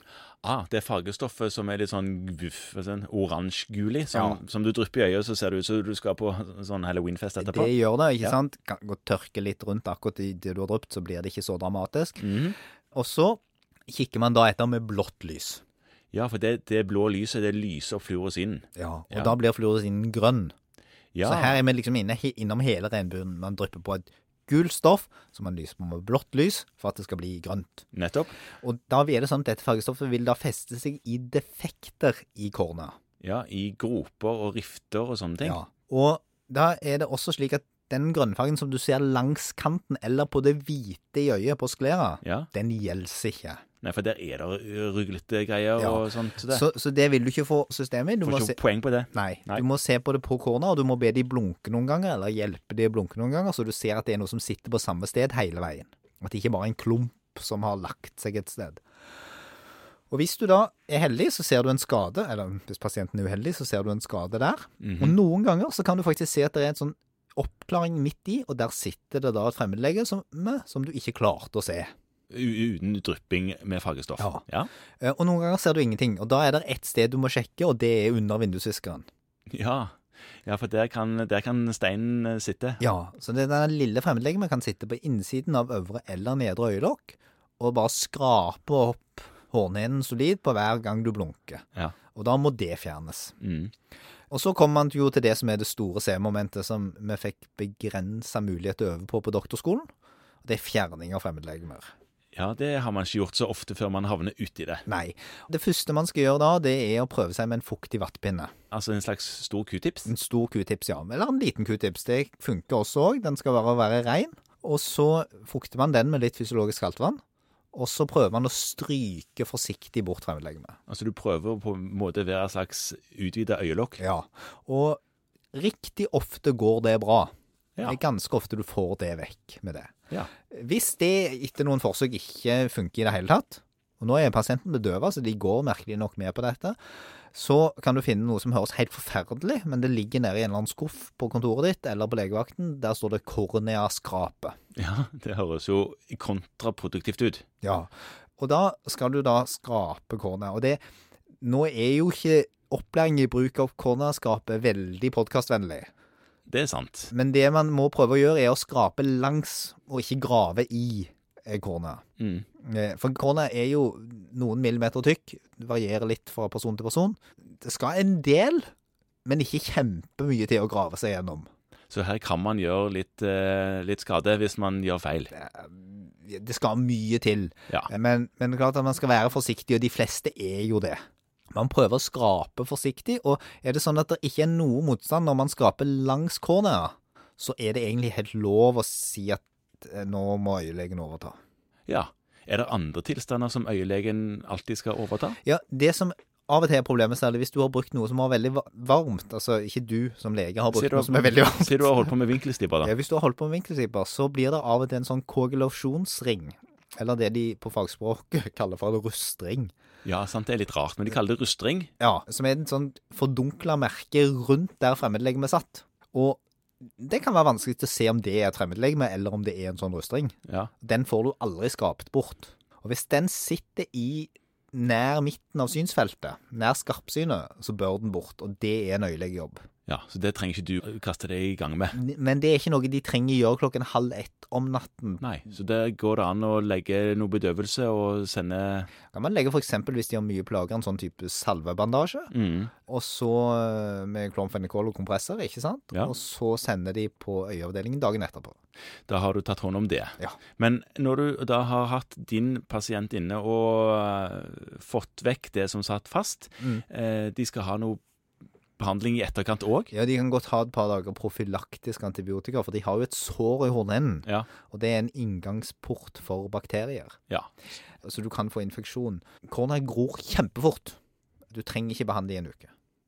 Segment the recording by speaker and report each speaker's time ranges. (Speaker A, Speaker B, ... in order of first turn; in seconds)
Speaker A: 0.4-7.7, 12.2-12.6, 16.1-19.3, 21.1-21.6, 27.9-28.4, 33.2-35.6, 42.2-42.5, 43.8-46.6, 48.2-49.6, 64.8-65.2, 72.3-74.7, 79.5-82.8, 93.4-93.7, 102.3-104.8, 108.7-110.1, 120.9-124.0, 144.8-147.4, 156.5-157.1, 162.2-162.5, 171.9-175.3, 191.9-195.4, 200.7-202.9, 210.0-211.9, 229.9-232.0, 235.2-238.9, 242.3-242.7, 249.1-258.0, 258.8-259.9
Speaker B: 4.1-4.4, 7.4-12.3, 12.9-15.6, 18.8-20.5, 21.2-27.8, 28.6-33.0, 35.4-43.6, 45.8-48.6, 49.1-58.8, 60.1-71.9, 74.2-74.4, 75.0-79.1, 82.8-93.3, 94.3-99.9, 100.4-101.9, 104.9-108.5, 110.1-117.2, 117.7-120.8, 124.0-125.0, 125.5-129.9, 130.5-136.8, 137.3-144.6, 147.6-150.8, 151.4-155.9, 157.1-162.0, 162.6-168.7, 169.2-171.5, 175.3-191.3, 195.4-202.1, 202.8-209.7, 212.0-216.4, 217.0-229.6, 231.9-235.2, 239.1-242.3, 242.9-248.5, 259.9-267.2, 268.0-271.0, 271.5-272.7